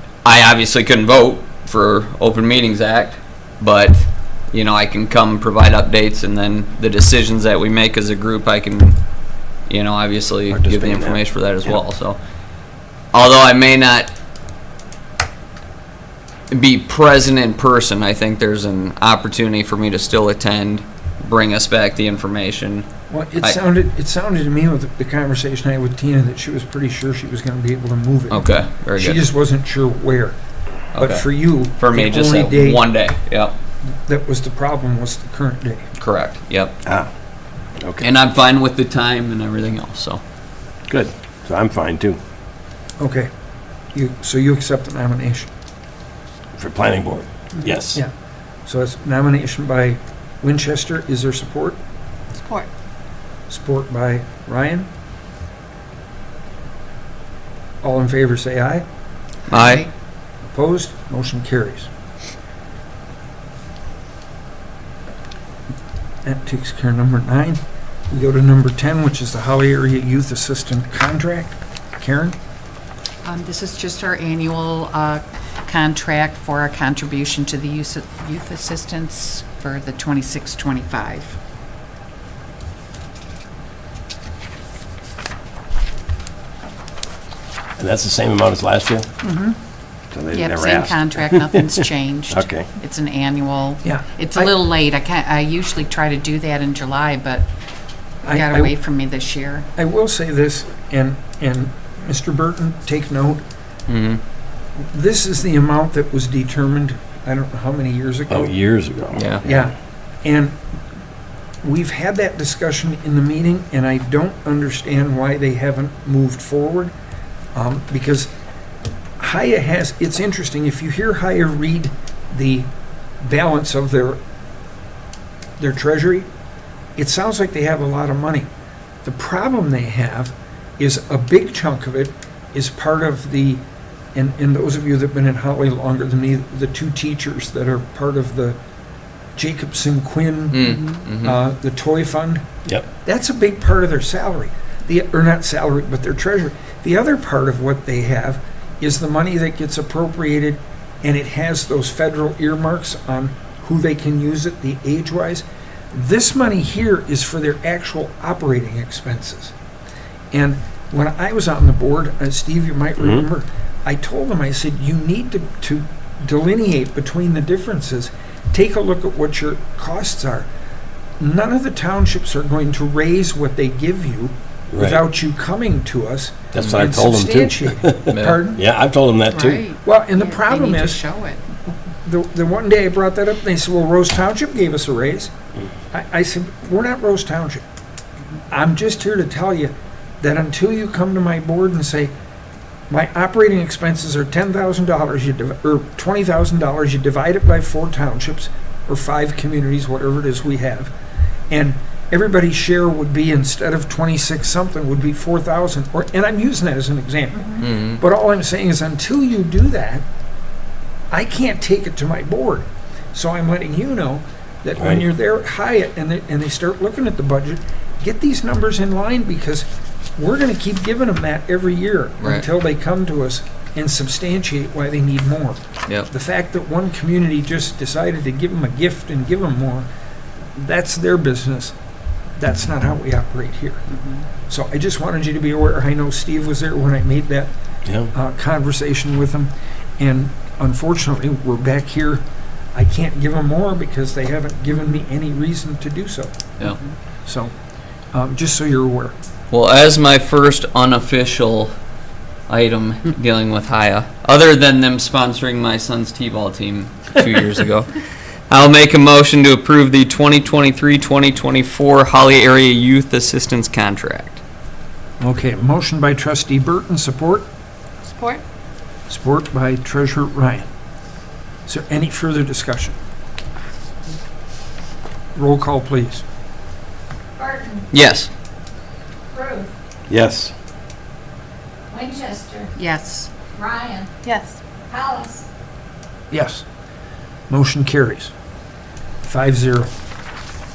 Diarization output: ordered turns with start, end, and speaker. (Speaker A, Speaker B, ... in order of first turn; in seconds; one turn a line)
Speaker A: 0.2-9.0
Speaker A: 9.7-12.2
Speaker B: 10.5-11.2
Speaker A: 13.1-14.1
Speaker A: 16.5-22.9
Speaker C: 23.1-30.4
Speaker A: 28.3-29.2
Speaker C: 30.9-32.8
Speaker A: 30.9-33.5
Speaker C: 34.0-35.9
Speaker A: 36.0-36.7
Speaker B: 36.8-37.1
Speaker A: 38.0-40.2
Speaker B: 40.9-42.2
Speaker C: 43.0-43.3
Speaker C: 43.9-45.5
Speaker B: 46.6-48.0
Speaker C: 48.6-51.8
Speaker C: 53.5-54.9
Speaker C: 57.8-58.8
Speaker A: 59.5-59.9
Speaker D: 59.5-59.9
Speaker C: 60.5-61.9
Speaker C: 66.2-72.3
Speaker D: 73.2-81.3
Speaker B: 87.8-89.1
Speaker B: 90.1-92.7
Speaker D: 90.3-97.5
Speaker C: 93.8-94.5
Speaker D: 98.2-99.7
Speaker C: 98.2-98.7
Speaker C: 99.8-103.4
Speaker A: 103.9-104.2
Speaker C: 104.9-108.6
Speaker B: 108.3-109.6
Speaker A: 109.2-109.4
Speaker C: 109.4-110.6
Speaker C: 111.6-116.9
Speaker C: 117.5-118.3
Speaker C: 119.2-122.7
Speaker C: 123.2-124.2
Speaker C: 125.6-126.3
Speaker C: 127.0-128.5
Speaker C: 129.0-133.6
Speaker C: 134.1-138.6
Speaker C: 139.3-140.7
Speaker A: 140.5-141.4
Speaker D: 140.6-141.0
Speaker C: 141.2-142.4
Speaker C: 143.0-159.5
Speaker C: 160.3-170.5
Speaker C: 171.2-178.6
Speaker B: 174.7-175.0
Speaker B: 176.5-179.7
Speaker A: 178.1-178.4
Speaker D: 179.3-181.4
Speaker C: 179.8-181.0
Speaker C: 182.0-185.3
Speaker C: 185.9-187.6
Speaker C: 188.5-192.1
Speaker C: 192.9-200.9
Speaker C: 201.5-210.0
Speaker A: 207.6-208.0
Speaker C: 211.1-229.9
Speaker B: 214.8-215.0
Speaker C: 230.5-231.7
Speaker C: 232.4-233.8
Speaker C: 234.5-237.5
Speaker C: 238.1-242.2
Speaker C: 242.7-246.3
Speaker C: 247.2-247.5
Speaker C: 248.1-249.1
Speaker A: 249.5-251.7
Speaker A: 252.5-264.4
Speaker C: 265.2-267.5
Speaker C: 269.1-270.7
Speaker C: 271.6-272.9
Speaker C: 275.3-276.2
Speaker A: 277.9-278.3
Speaker E: 279.3-279.6
Speaker B: 280.1-280.5
Speaker E: 281.9-282.7
Speaker D: 282.7-283.6
Speaker E: 283.6-284.1
Speaker D: 284.2-284.6
Speaker E: 284.9-285.4
Speaker C: 286.3-286.6
Speaker C: 287.5-288.3
Speaker C: 289.2-289.9